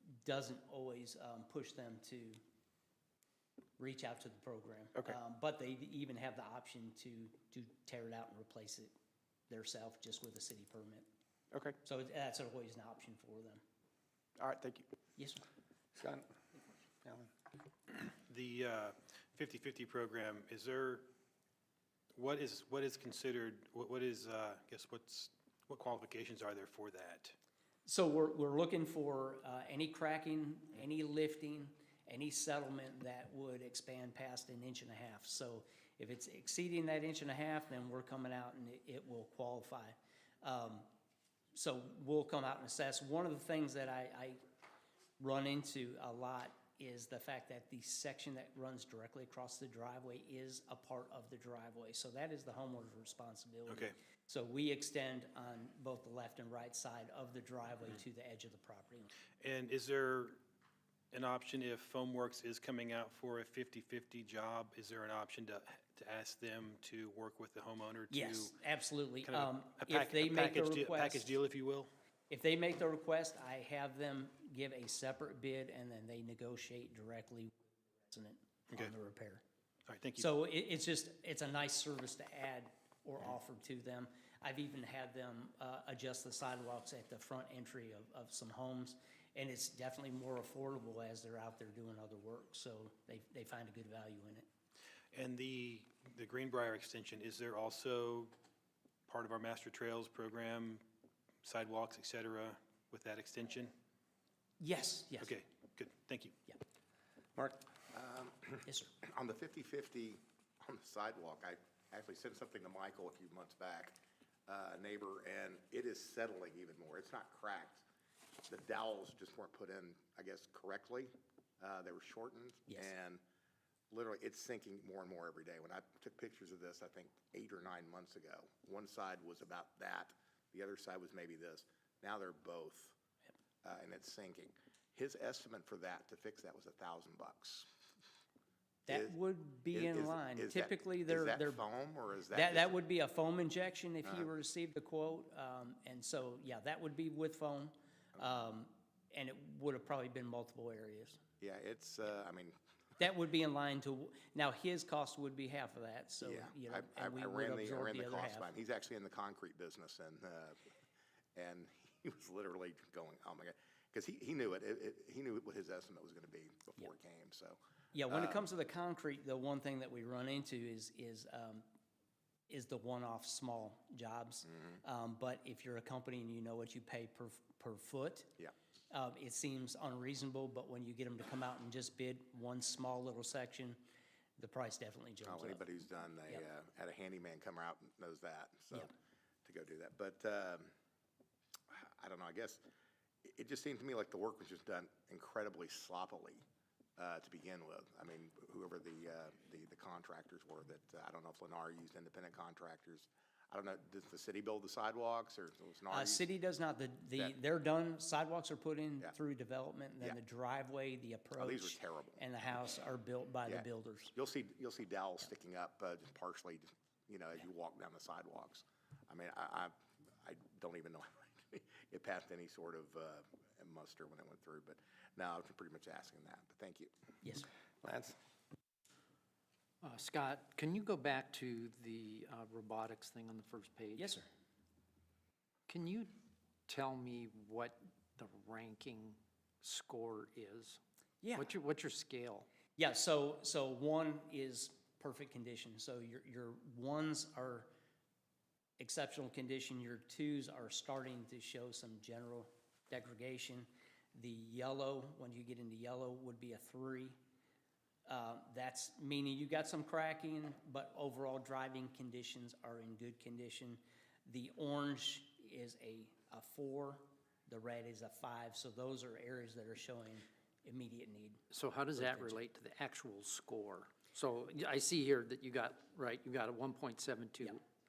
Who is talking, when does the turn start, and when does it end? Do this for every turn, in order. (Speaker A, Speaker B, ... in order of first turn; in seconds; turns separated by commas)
Speaker A: 0.2-2.4, Speaker A: 3.8-8.9, Speaker A: 9.5-11.1, Speaker A: 11.8-13.6, Speaker B: 14.4-14.9, Speaker B: 15.9-16.3, Speaker B: 17.0-17.3, Speaker C: 17.9-21.1, Speaker C: 22.1-27.4, Speaker A: 27.9-40.9, Speaker A: 41.5-44.4, Speaker A: 45.2-59.1, Speaker C: 53.7-53.9, Speaker C: 59.4-60.4, Speaker C: 61.1-68.5, Speaker A: 68.1-71.3, Speaker C: 69.2-71.9, Speaker A: 72.3-79.4, Speaker C: 79.9-80.3, Speaker A: 80.2-94.5, Speaker C: 95.1-98.3, Speaker C: 99.1-100.8, Speaker C: 101.4-103.7, Speaker A: 104.6-105.3, Speaker C: 105.2-106.3, Speaker B: 107.3-107.6, Speaker D: 107.9-117.8, Speaker A: 108.7-108.9, Speaker D: 118.5-123.2, Speaker D: 123.9-133.0, Speaker D: 133.6-137.7, Speaker A: 138.9-141.6, Speaker D: 138.9-139.1, Speaker D: 139.7-142.7, Speaker A: 142.3-151.2, Speaker D: 151.4-152.6, Speaker A: 153.0-158.5, Speaker D: 156.2-160.6, Speaker D: 161.3-168.4, Speaker A: 167.9-171.7, Speaker A: 172.5-178.3, Speaker A: 178.9-183.8, Speaker A: 184.4-185.6, Speaker D: 185.2-188.9, Speaker D: 189.4-190.7, Speaker D: 191.7-192.6, Speaker D: 193.2-196.4, Speaker D: 197.0-206.2, Speaker A: 205.9-214.1, Speaker D: 211.4-212.2, Speaker D: 213.5-226.9, Speaker B: 227.8-228.2, Speaker E: 229.8-234.1, Speaker A: 234.0-234.3, Speaker E: 235.7-236.1, Speaker E: 236.7-240.8, Speaker A: 241.2-241.5, Speaker E: 241.3-242.5, Speaker A: 242.8-247.7, Speaker A: 248.8-257.1, Speaker A: 258.1-271.4, Speaker E: 271.5-277.6, Speaker A: 272.0-272.4